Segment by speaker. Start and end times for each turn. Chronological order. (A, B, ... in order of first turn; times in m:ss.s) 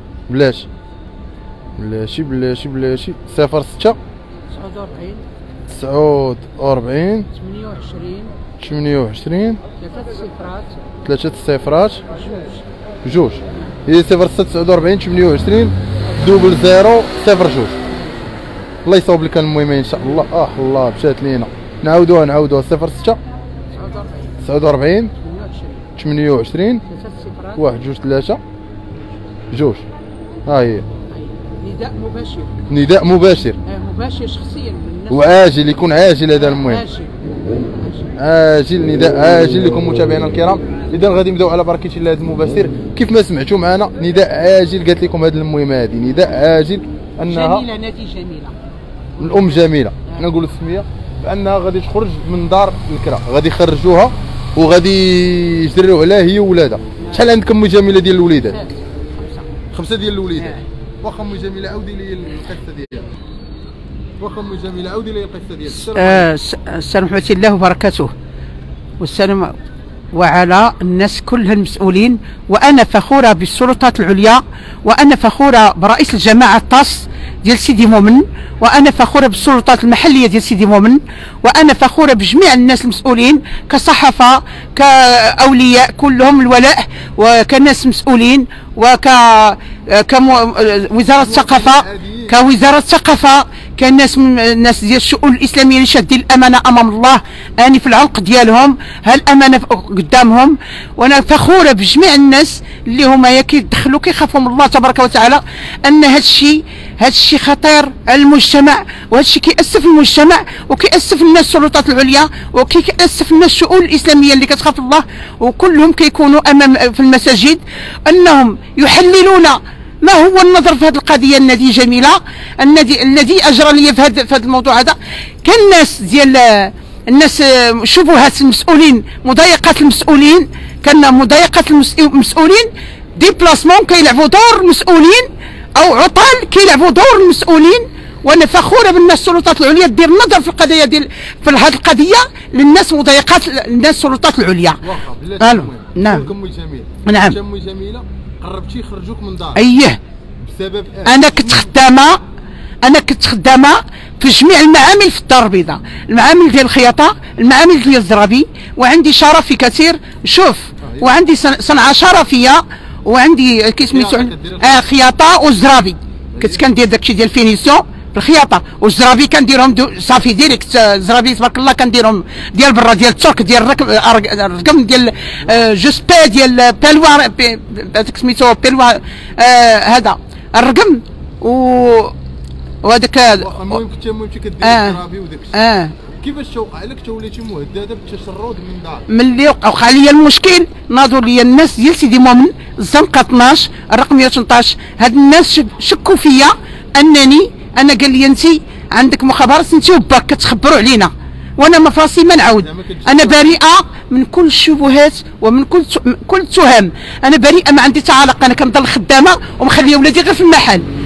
0:00.3-0:00.7 A
0:01.8-0:04.0 A
0:04.5-0:05.2 B
0:05.7-0:07.3 A
0:07.3-0:08.3 B
0:08.6-0:09.6 A
0:09.8-0:10.8 B
0:11.0-0:12.1 A
0:12.1-0:12.6 B
0:13.0-0:17.8 A
0:17.9-0:18.4 B
0:18.8-0:23.2 A
0:23.7-0:24.4 B
0:24.4-0:25.1 A
0:25.2-0:25.8 B
0:26.0-0:26.8 A
0:26.9-0:27.6 B
0:27.6-0:28.4 A
0:29.5-0:29.8 A
0:30.5-0:30.9 A
0:31.1-0:32.6 B
0:32.7-0:33.6 A
0:33.7-0:35.4 B
0:35.1-0:36.8 A
0:36.4-0:38.1 B
0:38.2-0:47.7 A
0:47.3-0:48.6 B
0:49.2-0:58.6 A
0:49.2-0:50.2 B
0:58.5-0:59.4 B
0:59.7-1:03.1 A
1:04.2-1:06.3 A
1:05.7-1:08.1 B
1:09.0-1:09.6 B
1:10.1-2:24.8 B
1:31.1-1:32.4 A
2:24.8-2:29.6 A
2:25.4-2:26.3 B
2:27.1-2:27.4 B
2:29.6-2:30.0 B
2:30.4-2:31.6 A
2:31.1-2:32.2 B
2:32.8-3:02.2 B
2:40.8-2:41.1 A
2:43.9-2:44.8 A
2:46.3-2:46.6 A
3:02.8-3:03.6 B
3:03.3-3:09.1 A
3:04.6-3:05.0 B
3:05.5-3:05.9 B
3:09.1-3:30.9 B
3:22.4-3:23.5 A